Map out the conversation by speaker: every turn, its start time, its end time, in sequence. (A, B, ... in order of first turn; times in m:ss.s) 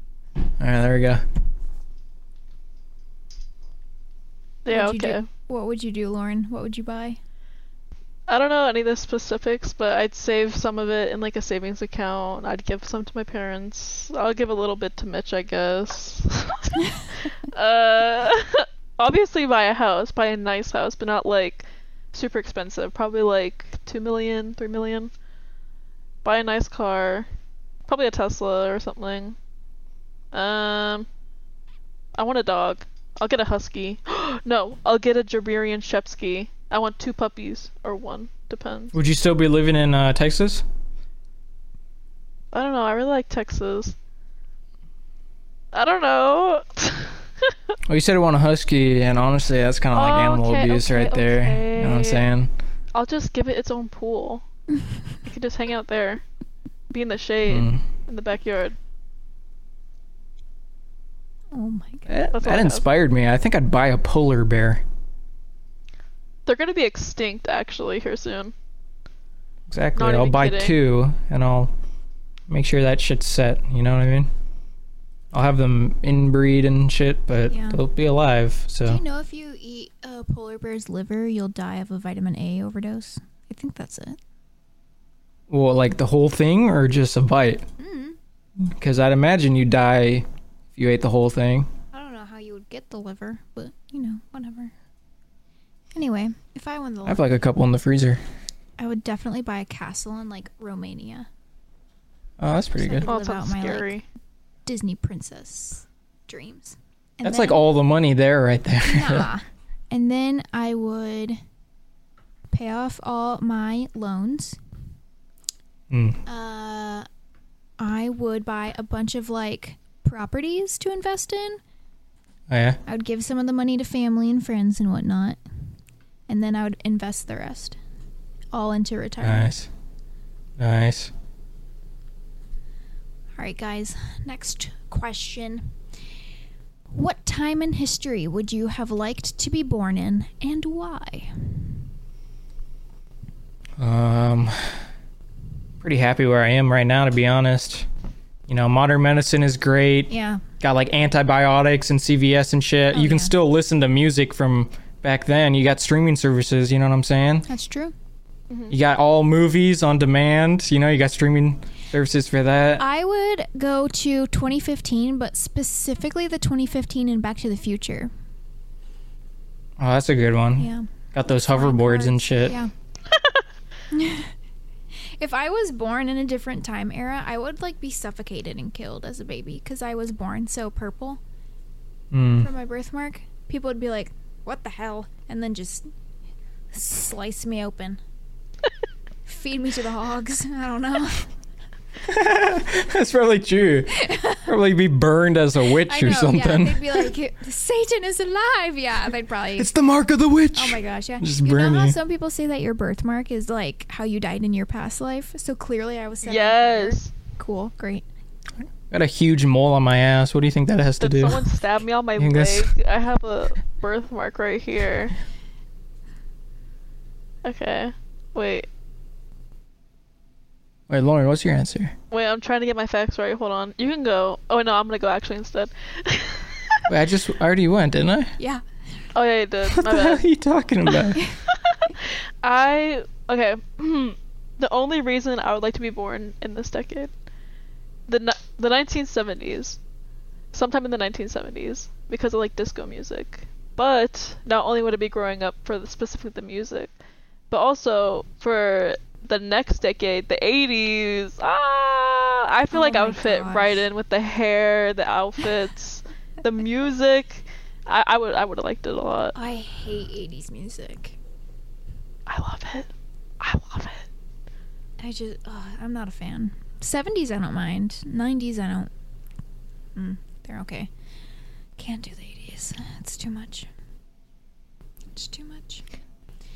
0:00.6-0:01.2 A
0:04.6-0:05.3 B
0:04.7-0:07.2 C
0:08.3-0:25.1 B
0:26.2-0:27.3 B
0:27.9-0:29.4 B
0:30.3-0:31.1 B
0:32.2-0:38.9 B
0:38.9-0:40.6 A
0:42.5-0:44.0 B
0:45.7-0:47.5 B
0:47.8-0:52.5 A
0:49.9-0:52.2 B
0:52.9-0:54.4 B
0:55.2-0:56.2 B
0:56.9-0:58.8 B
0:57.5-0:57.8 A
1:01.5-1:02.1 C
1:02.1-1:04.8 A
1:02.3-1:02.8 B
1:06.4-1:08.5 B
1:09.7-1:11.7 A
1:10.0-1:10.8 B
1:12.5-1:14.3 A
1:15.3-1:19.0 A
1:17.5-1:17.8 C
1:18.8-1:24.2 C
1:25.5-1:27.6 A
1:27.8-1:28.2 C
1:28.6-1:31.7 A
1:31.9-1:34.7 C
1:35.9-1:37.2 C
1:37.0-1:38.2 A
1:38.8-1:41.3 C
1:42.4-1:43.1 A
1:42.5-1:43.9 C
1:43.0-1:44.0 B
1:44.6-1:47.6 C
1:47.2-1:49.3 A
1:48.8-1:51.4 C
1:52.5-1:54.6 C
1:55.9-1:56.2 A
1:56.2-1:57.1 C
1:57.8-2:01.6 C
2:02.5-2:02.8 A
2:02.8-2:05.4 C
2:06.3-2:07.8 C
2:08.5-2:09.5 C
2:09.2-2:09.7 A
2:10.6-2:11.1 A
2:13.4-2:15.7 C
2:16.9-2:21.6 C
2:23.8-2:24.8 A
2:25.8-2:27.9 A
2:28.5-2:37.5 A
2:30.1-2:30.4 C
2:32.9-2:33.3 C
2:37.5-2:37.9 C
2:38.5-2:38.8 B
2:38.7-2:42.8 A
2:42.8-2:48.1 C
2:49.8-2:52.6 A
2:50.6-2:52.7 C
2:53.1-2:53.4 B
2:53.9-2:54.3 C
2:55.2-3:01.2 C
3:02.1-3:02.5 A
3:02.4-3:05.9 C
3:06.7-3:08.0 C
3:09.2-3:11.3 C
3:12.0-3:17.1 A
3:14.0-3:14.5 C
3:15.8-3:19.7 C
3:19.6-3:22.0 A
3:20.5-3:28.0 C
3:26.2-3:27.1 B
3:28.9-3:31.5 A
3:31.0-3:35.1 B
3:32.2-3:32.7 A
3:37.4-3:38.6 B
3:40.9-3:41.9 A
3:42.1-3:46.8 B
3:46.9-3:48.3 A
3:49.1-3:50.2 B
3:49.7-3:51.2 A
3:50.9-3:57.1 B
3:58.1-3:59.8 B
4:00.5-4:06.9 B
4:07.5-4:19.3 B
4:12.7-4:13.8 C
4:19.3-4:21.2 C
4:22.3-4:24.1 B
4:25.0-4:28.9 C
4:29.9-4:30.9 C
4:31.8-4:33.7 C
4:35.1-4:35.8 C